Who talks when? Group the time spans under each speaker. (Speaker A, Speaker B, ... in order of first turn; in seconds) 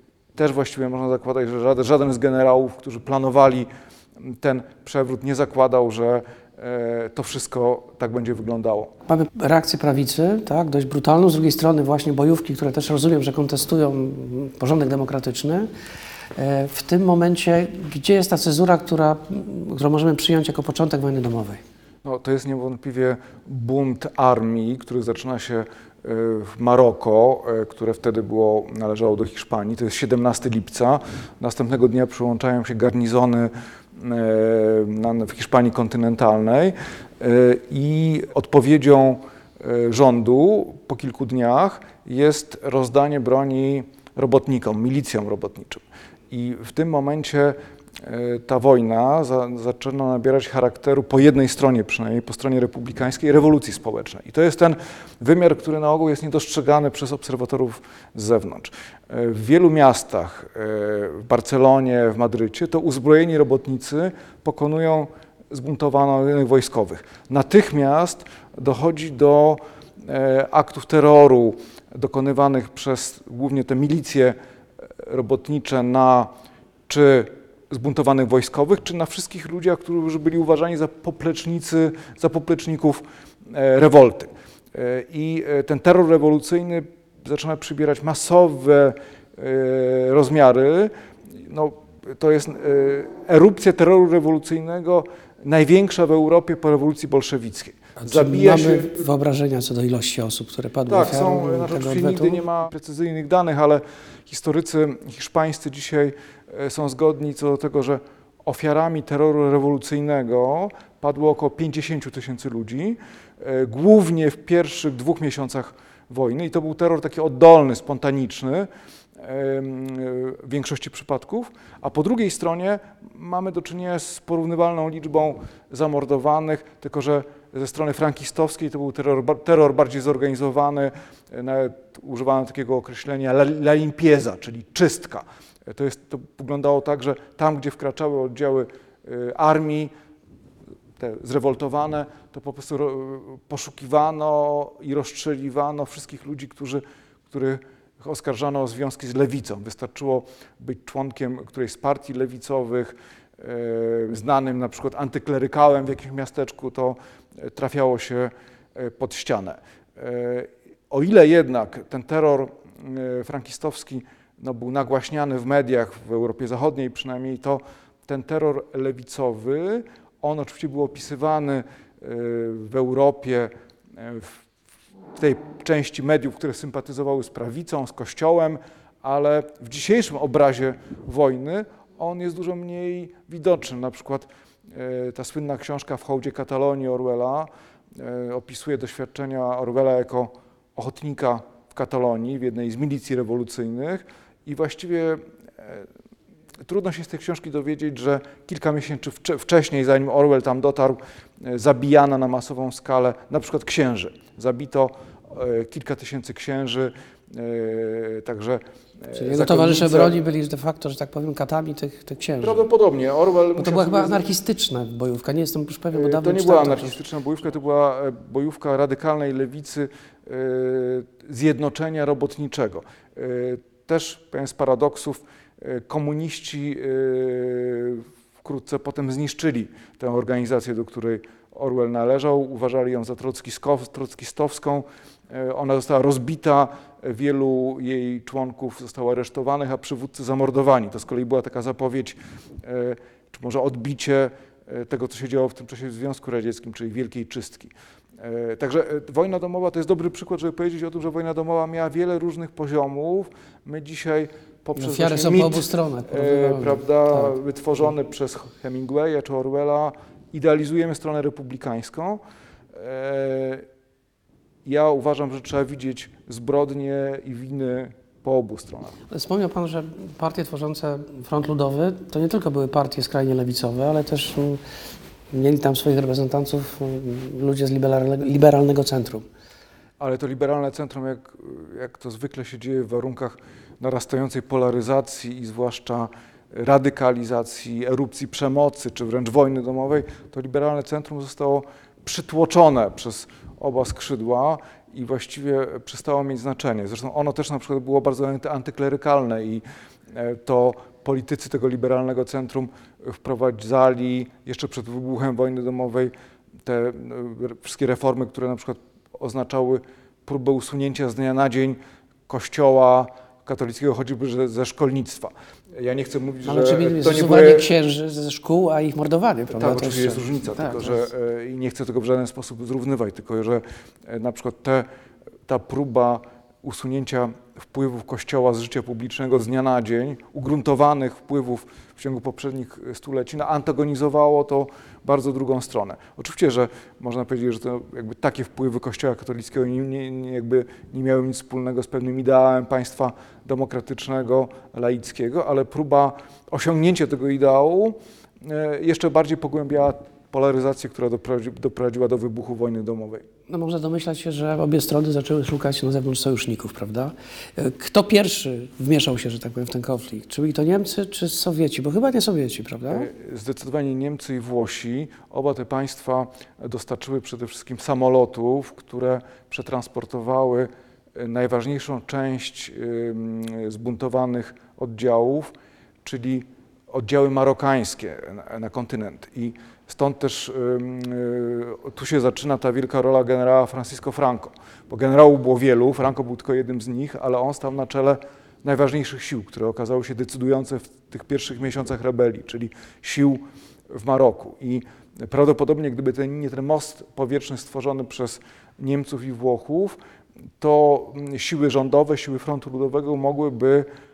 Speaker A: 0.3-8.9, 22.0-74.3, 75.0-76.3, 76.9-99.0, 100.9-139.9, 141.0-174.4, 175.1-195.9, 196.6-210.2, 212.4-214.2, 215.9-262.2, 262.7-263.6, 264.6-268.9, 280.0-306.1, 306.6-317.7, 319.5-324.9, 325.5-353.2, 362.9-375.5, 376.0-400.0, 400.6-403.9
Speaker B: 9.1-15.7, 16.4-21.6, 98.0-102.4, 209.1-212.6, 213.6-217.0, 254.8-257.3, 269.1-274.6, 275.3-279.2, 316.4-321.1, 353.5-363.1